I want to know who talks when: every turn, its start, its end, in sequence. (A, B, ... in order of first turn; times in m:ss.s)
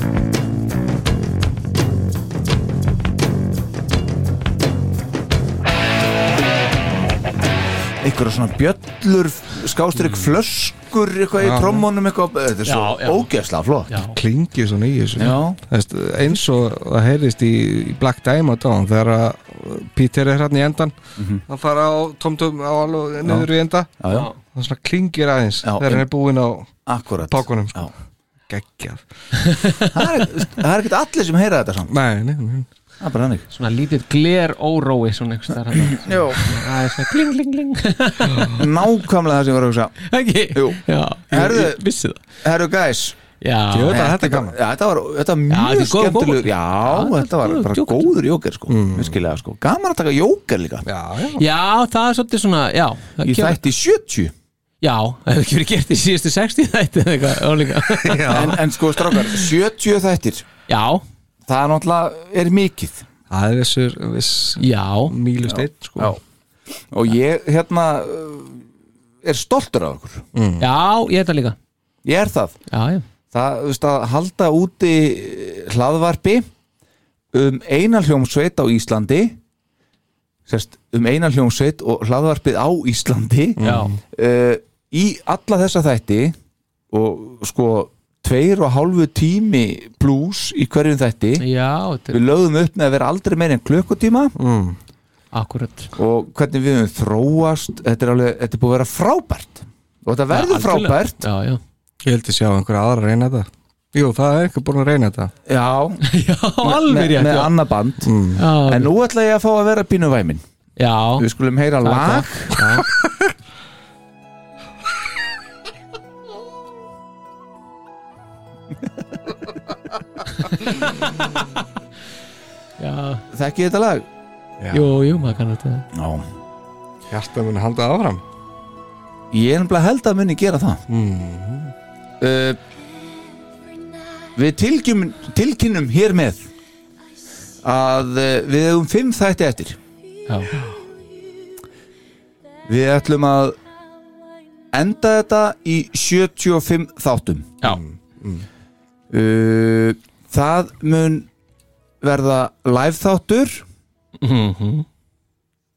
0:08.0-0:13.9 A
0:11.4-0:11.8 B
0:12.6-0:13.3 C
0:13.9-0:14.2 C
0:14.1-0:21.0 B
0:15.2-0:15.6 A
0:21.2-0:21.4 A
0:21.5-0:24.0 B
0:24.0-0:24.3 A
0:24.5-0:27.9 B
0:25.6-0:26.0 A
0:26.9-0:27.9 A
0:28.5-0:29.0 B
0:29.4-0:29.9 C
0:29.9-0:31.9 A
0:31.9-0:32.7 B
0:33.0-0:33.5 A
0:33.5-0:38.6 C
0:36.0-0:36.4 A
0:38.5-0:40.0 A
0:40.1-0:42.2 C
0:40.5-0:41.8 A
0:42.4-0:43.2 A
0:43.4-0:44.1 C
0:43.7-0:44.6 B
0:43.9-0:50.9 A
0:45.5-0:48.1 C
0:48.7-0:49.2 B
0:50.9-0:51.4 B
0:51.4-0:53.6 C
0:53.2-0:54.3 A
0:54.8-0:58.5 C
0:57.9-0:58.6 B
0:58.3-1:00.5 A
1:00.7-1:01.0 C
1:01.5-1:03.0 A
1:03.3-1:06.2 B
1:04.6-1:05.1 C
1:05.5-1:06.2 A
1:06.9-1:08.7 A
1:09.2-1:10.2 A
1:10.4-1:10.6 B
1:10.6-1:11.6 C
1:12.0-1:12.6 A
1:12.7-1:13.0 C
1:13.3-1:16.5 A
1:17.3-1:19.4 A
1:20.5-1:23.6 A
1:23.6-1:23.9 C
1:23.6-1:24.0 B
1:24.1-1:26.4 A
1:26.9-1:31.4 A
1:31.4-1:32.2 C
1:32.1-1:34.3 A
1:34.4-1:34.8 B
1:35.3-1:35.9 C
1:36.0-1:41.2 A
1:40.3-1:41.6 C
1:42.0-1:45.3 B
1:45.5-1:46.0 A
1:46.1-1:47.5 C
1:46.6-1:48.1 A
1:48.0-1:48.4 B
1:48.4-1:48.9 C
1:48.7-1:50.4 A
1:50.8-1:51.3 C
1:51.2-1:52.6 A
1:51.8-1:52.9 C
2:00.4-2:00.9 C
2:02.8-2:03.2 C
2:03.3-2:04.1 A
2:04.6-2:04.9 B
2:04.7-2:05.9 C
2:05.9-2:06.3 A
2:07.1-2:08.2 B
2:09.3-2:10.8 A
2:10.9-2:11.7 B
2:12.2-2:12.6 A
2:14.4-2:16.5 A
2:17.6-2:19.8 A
2:22.7-2:23.6 A
2:24.7-2:27.6 A
2:27.6-2:28.5 B
2:29.1-2:31.3 A
2:32.0-2:33.6 A
2:34.2-2:34.8 C